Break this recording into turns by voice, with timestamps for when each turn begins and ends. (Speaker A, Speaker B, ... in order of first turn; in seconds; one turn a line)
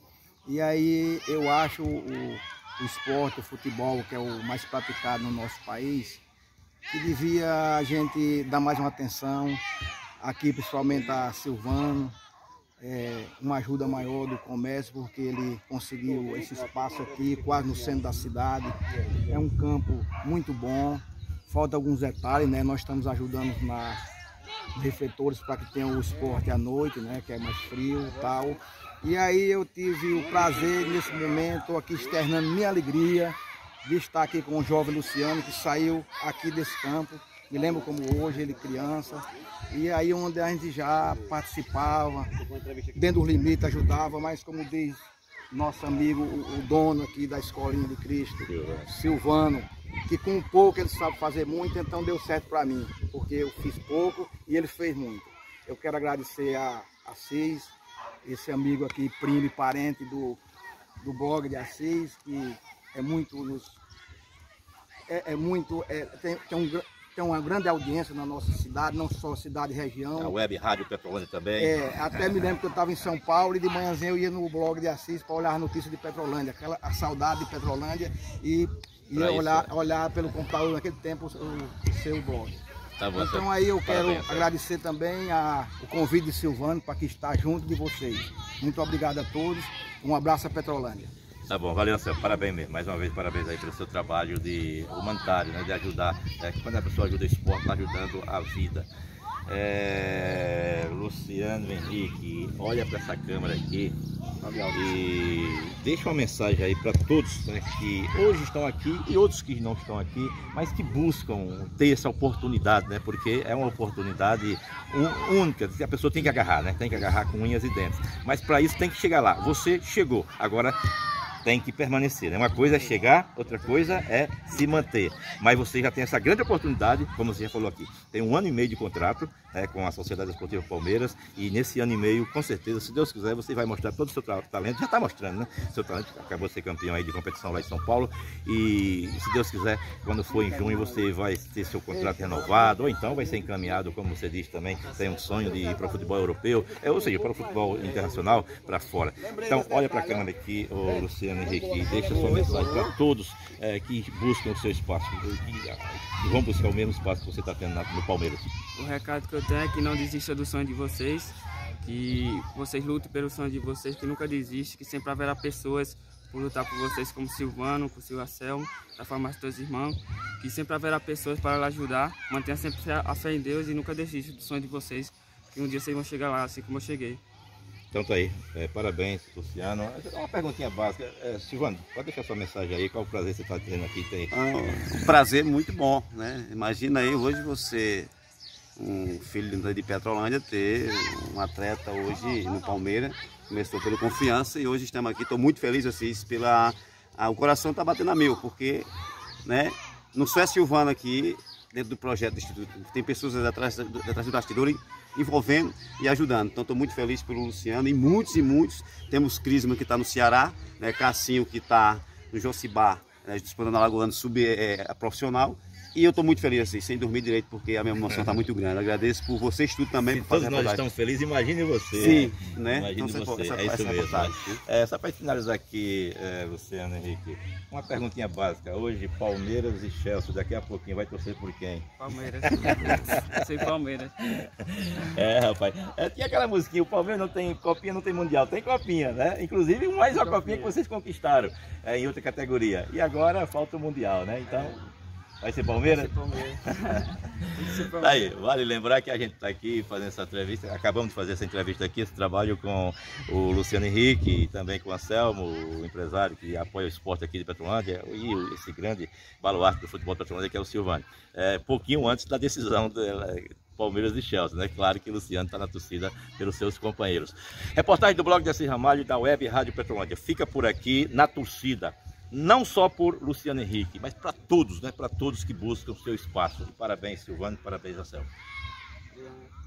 Speaker A: 0.5-6.2
Speaker A: 6.9-9.6
Speaker A: 10.2-12.1
Speaker A: 12.8-24.0
Speaker B: 16.3-18.3
Speaker A: 24.7-42.3
Speaker B: 37.5-39.0
Speaker B: 42.4-43.0
Speaker A: 43.0-60.4
Speaker C: 48.4-48.9
Speaker A: 61.0-63.8
Speaker A: 65.1-70.4
Speaker C: 70.2-72.4
Speaker A: 71.6-82.6
Speaker C: 79.1-79.7
Speaker C: 83.0-84.5
Speaker A: 83.1-91.1
Speaker C: 91.5-98.9
Speaker C: 99.5-104.0
Speaker D: 104.4-104.9
Speaker C: 104.7-120.8
Speaker C: 121.4-158.5
Speaker D: 122.7-124.0
Speaker A: 152.0-152.4
Speaker B: 152.1-152.9
Speaker D: 158.8-177.2
Speaker C: 177.9-184.3
Speaker B: 184.3-188.1
Speaker B: 188.8-198.9
Speaker B: 199.4-220.9
Speaker C: 218.1-218.4
Speaker C: 220.1-231.9
Speaker B: 221.9-224.6
Speaker D: 232.0-234.1
Speaker C: 232.4-233.4
Speaker C: 234.3-244.8
Speaker D: 240.1-240.8
Speaker D: 244.5-244.8
Speaker C: 245.4-246.2
Speaker D: 245.8-248.3
Speaker C: 246.9-278.3
Speaker D: 279.1-279.5